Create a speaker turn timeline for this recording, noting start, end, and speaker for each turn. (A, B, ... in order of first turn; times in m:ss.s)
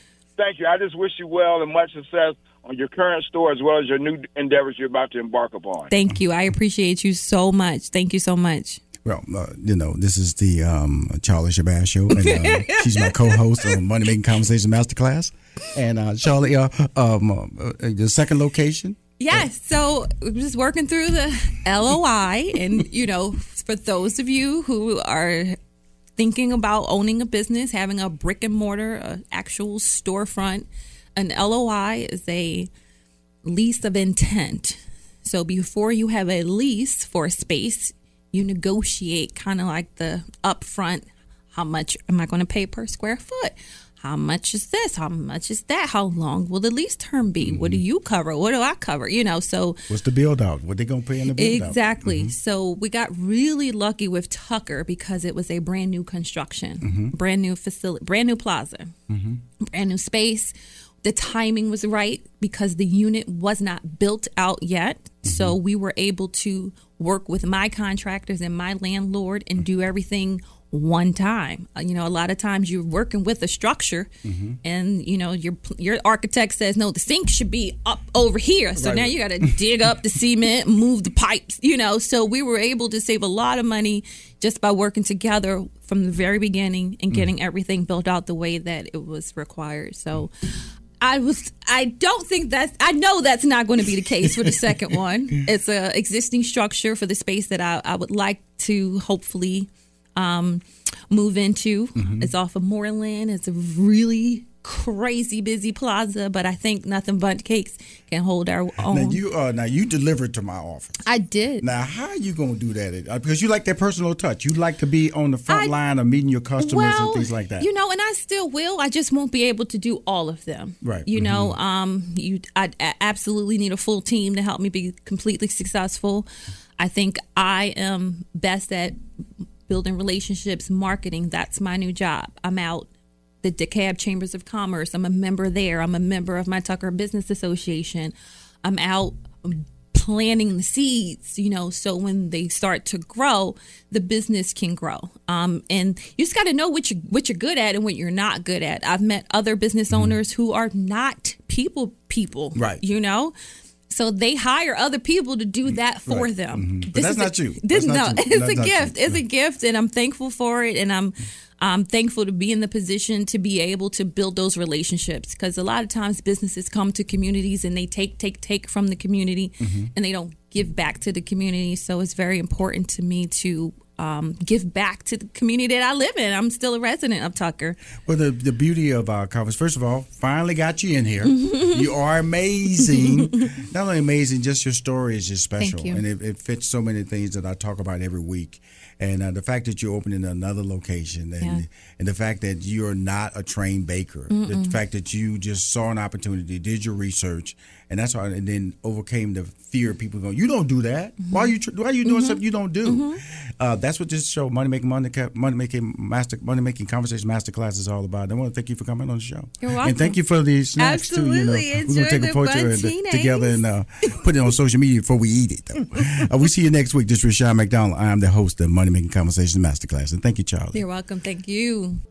0:00.4-0:05.9 A
0:05.9-0:08.8 B
0:09.0-0:19.4 C
0:12.1-0:13.8 B
0:19.2-0:25.6 B
0:26.2-0:32.7 B
0:33.4-0:49.8 B
0:47.4-0:47.8 C
0:49.9-0:52.3 C
0:51.4-0:58.9 B
0:56.8-0:57.1 C
0:59.1-0:59.4 C
0:59.7-1:00.5 B
1:01.0-1:14.1 B
1:05.2-1:05.6 C
1:14.2-1:14.6 C
1:14.6-1:30.3 B
1:18.8-1:19.6 C
1:31.0-1:49.2 B
1:34.2-1:34.7 C
1:42.0-1:42.3 C
1:48.9-1:51.0 C
1:51.0-1:51.6 B
1:51.6-1:57.7 C
1:55.5-1:55.8 B
1:56.6-2:09.0 B
2:00.8-2:01.6 C
2:09.7-2:12.9 B
2:13.4-2:18.1 B
2:18.6-2:33.3 B
2:32.6-2:32.8 C
2:33.9-2:57.8 B
2:35.7-2:39.2 C
2:49.6-2:49.9 C
2:58.1-3:40.8 C
3:01.2-3:01.9 B
3:02.8-3:03.1 B
3:05.6-3:06.0 B
3:14.3-3:14.8 B
3:21.2-3:21.5 B
3:22.0-3:23.2 B
3:29.6-3:30.2 B
3:30.8-3:33.6 B
3:40.7-3:42.0 B